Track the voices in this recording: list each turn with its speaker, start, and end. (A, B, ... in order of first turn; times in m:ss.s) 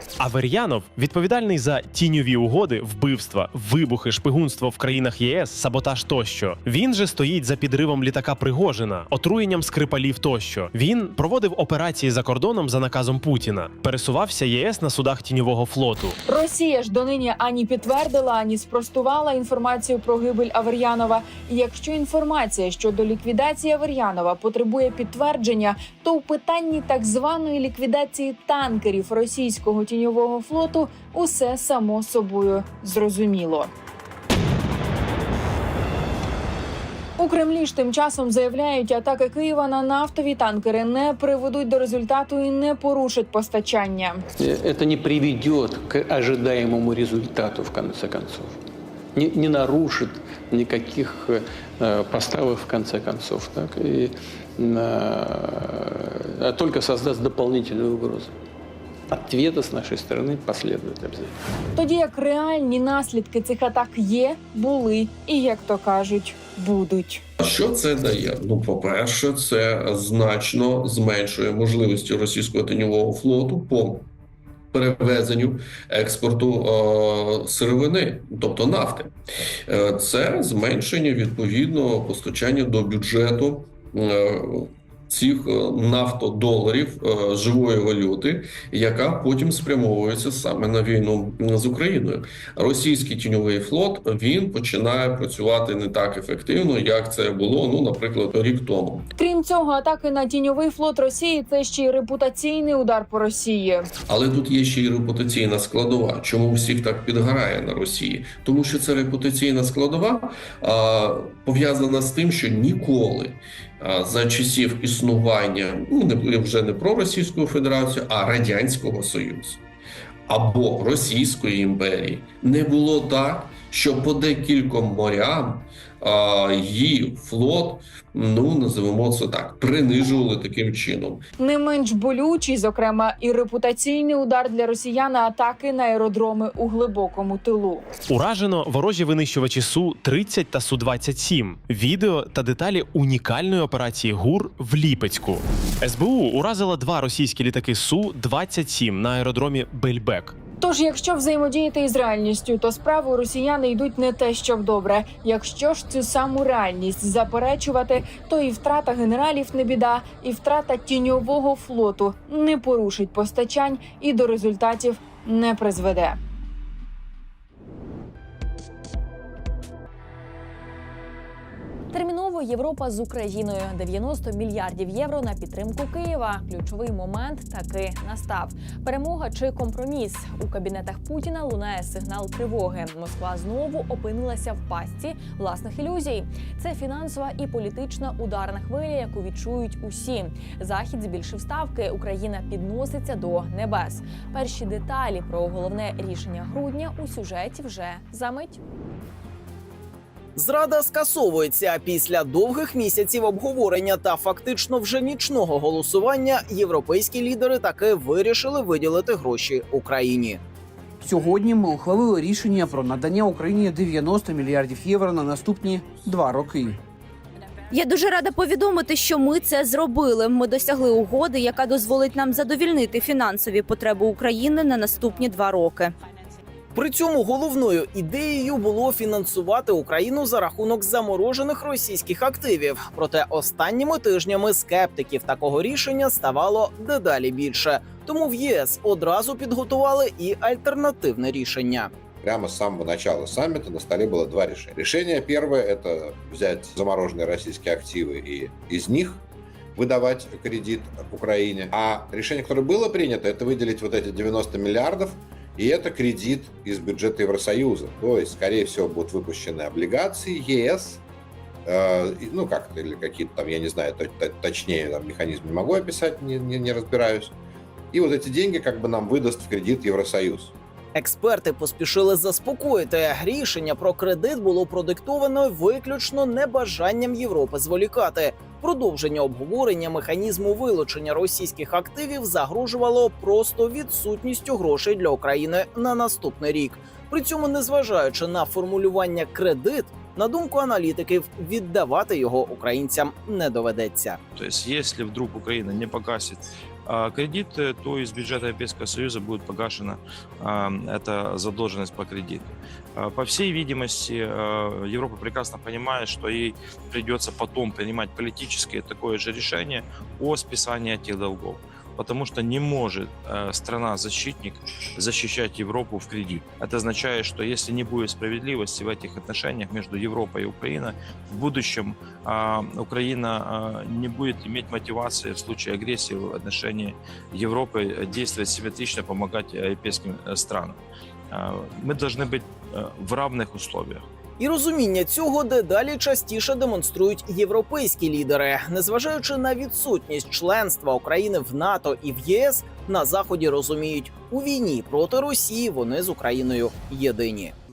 0:00.2-0:16.2 A
0:16.2-0:33.7 B
0:37.2-0:44.2 B
0:44.4-0:48.6 C
0:49.1-0:58.3 C
0:59.1-1:01.3 C
1:01.7-1:07.2 B
1:07.4-1:14.1 D
1:14.7-1:19.1 D
1:19.7-1:39.1 D
1:39.2-1:43.9 B
1:44.1-1:59.6 D
2:00.3-2:11.2 D
2:11.4-2:17.9 B
2:18.1-2:30.3 A
2:30.6-2:46.2 B
2:51.9-3:18.6 E
3:20.4-3:30.4 F
3:31.0-3:36.8 G
3:37.7-3:45.9 H
3:46.7-4:01.9 F
4:02.2-4:09.2 I
4:09.8-4:21.0 I
4:21.6-4:27.3 I
4:27.9-4:30.5 I
4:30.9-4:54.2 F
4:54.3-5:34.0 J
5:34.4-5:47.5 F